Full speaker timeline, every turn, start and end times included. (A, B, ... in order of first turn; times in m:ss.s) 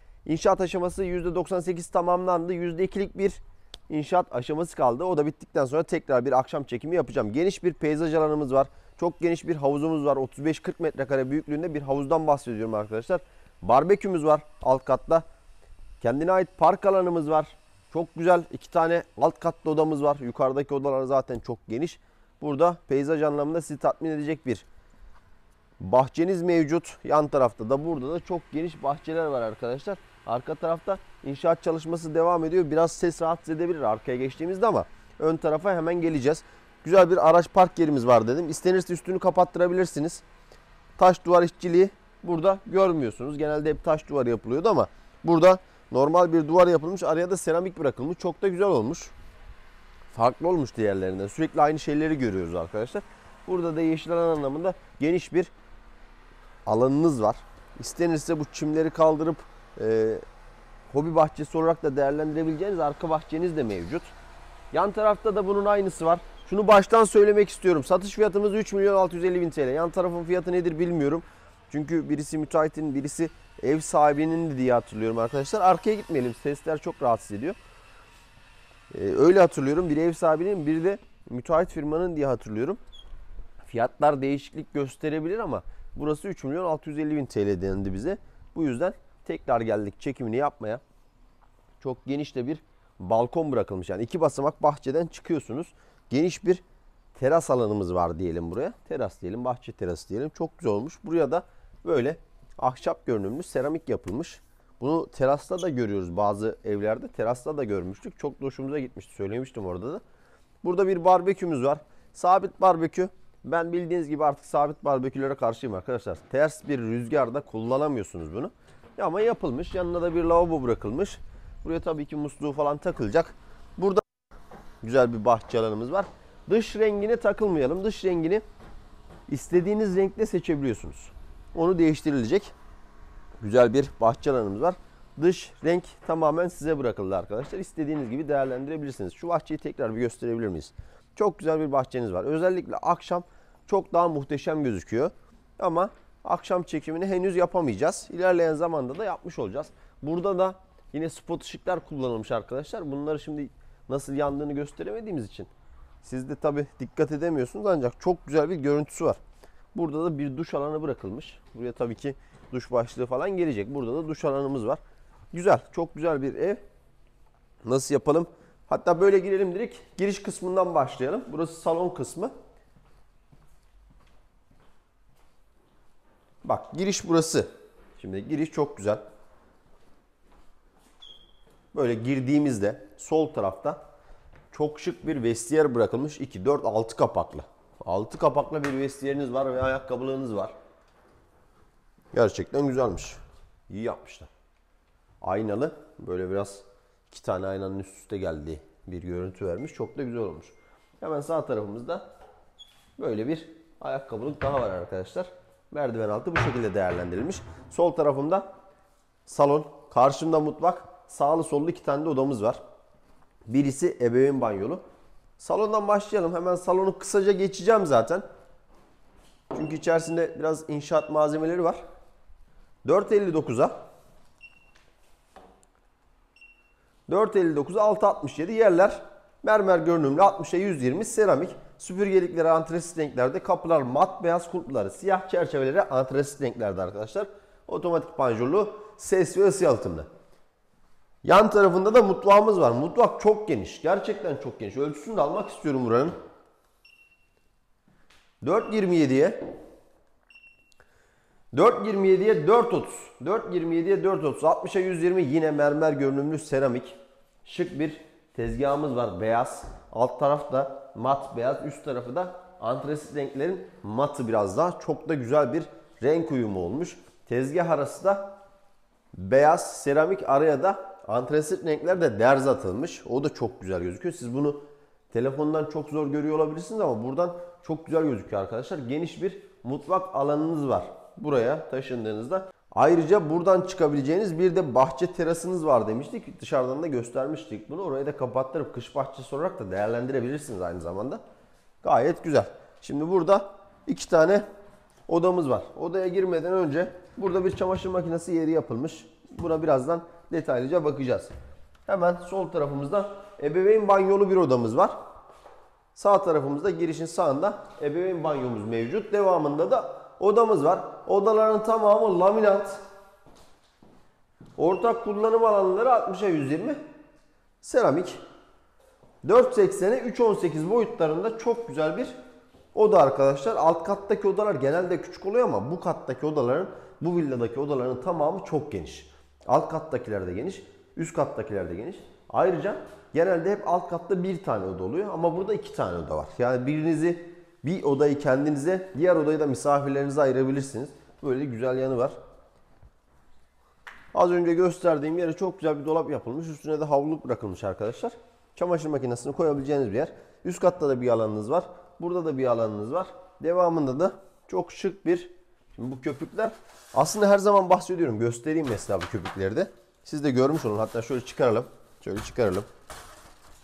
0:00.2-0:15.2 A
0:16.0-0:24.7 A
0:25.8-0:40.2 A
0:41.0-0:49.1 A
0:50.1-0:55.5 A
0:56.7-1:00.2 A
1:00.9-1:04.1 A
1:04.7-1:17.6 A
1:18.9-1:22.8 A
1:23.6-1:30.8 A
1:31.8-1:36.6 A
1:37.2-1:50.0 A
1:50.6-2:04.0 A
2:04.8-2:08.4 A
2:09.3-2:12.5 A
2:13.4-2:35.5 A
2:36.0-2:39.2 A
2:39.7-2:44.8 A
2:45.3-2:46.6 A
2:47.6-2:52.3 A
2:56.4-2:59.0 A
3:01.7-3:03.8 A
3:04.5-3:10.5 A
3:12.1-3:14.3 A
3:15.2-3:22.0 A
3:23.0-3:28.5 A
3:29.3-3:32.6 A
3:33.5-3:34.8 A
3:35.4-3:38.2 A
3:39.5-3:41.8 A
3:42.8-3:43.8 A
3:47.1-4:00.1 A
4:01.2-4:06.1 A
4:08.4-4:09.4 A
4:11.5-4:28.4 A
4:29.1-4:51.2 A
4:51.8-4:54.4 A
4:55.1-5:01.3 A
5:01.9-5:05.0 A
5:06.0-5:12.8 A
5:14.6-5:16.8 A
5:17.6-5:18.2 A
5:19.2-5:22.2 A
5:22.7-5:42.2 A
5:44.1-6:02.7 A